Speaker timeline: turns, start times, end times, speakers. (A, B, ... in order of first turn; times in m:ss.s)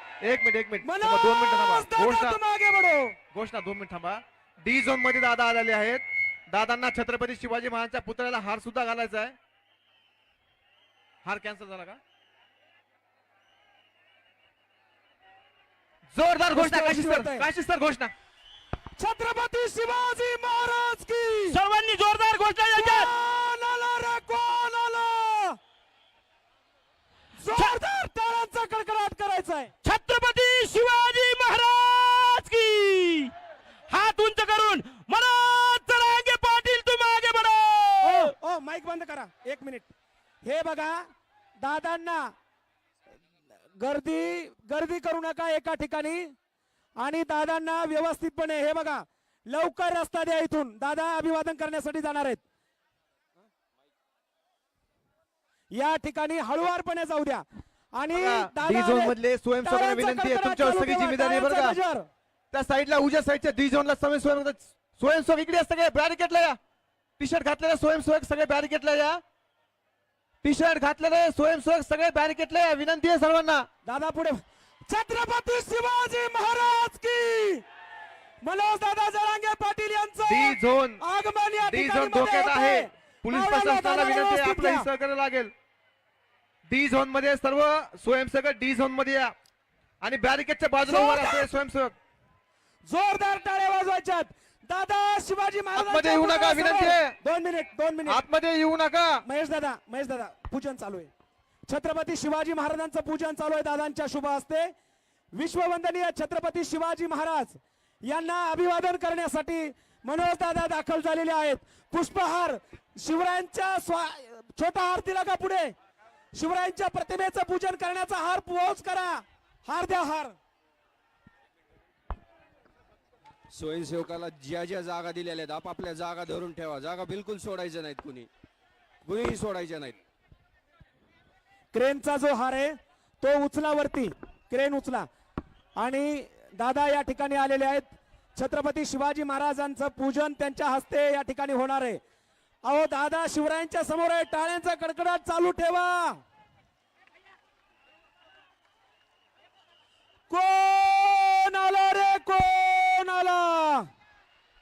0:00.2-0:02.4 A
0:00.8-0:03.2 B
0:03.3-0:09.4 A
0:11.2-0:12.0 A
0:16.1-0:18.1 A
0:16.5-0:17.5 B
0:19.0-0:21.6 B
0:21.5-0:23.1 C
0:22.8-0:25.6 B
0:27.4-0:29.7 B
0:29.8-0:33.3 C
0:33.9-0:38.3 C
0:38.0-0:39.9 B
0:40.4-0:41.1 B
0:41.6-0:42.3 B
0:43.8-0:46.3 B
0:47.0-0:52.4 B
0:55.7-1:02.1 B
0:58.1-1:01.8 A
1:02.5-1:06.6 A
1:07.2-1:09.2 A
1:10.4-1:13.7 A
1:13.8-1:14.4 B
1:14.9-1:17.6 B
1:18.4-1:24.9 B
1:20.3-1:21.0 A
1:21.6-1:25.5 A
1:26.7-1:29.3 A
1:30.0-1:31.9 A
1:30.9-1:31.5 B
1:32.9-1:38.2 B
1:35.8-1:37.2 A
1:38.1-1:39.2 A
1:39.2-1:41.1 B
1:41.7-1:44.7 B
1:45.3-1:55.7 B
1:56.4-2:00.3 B
2:03.5-2:08.3 D
2:09.0-2:10.0 D
2:11.7-2:15.1 B
2:15.8-2:22.0 B
2:22.6-2:26.2 B
2:30.3-2:33.9 B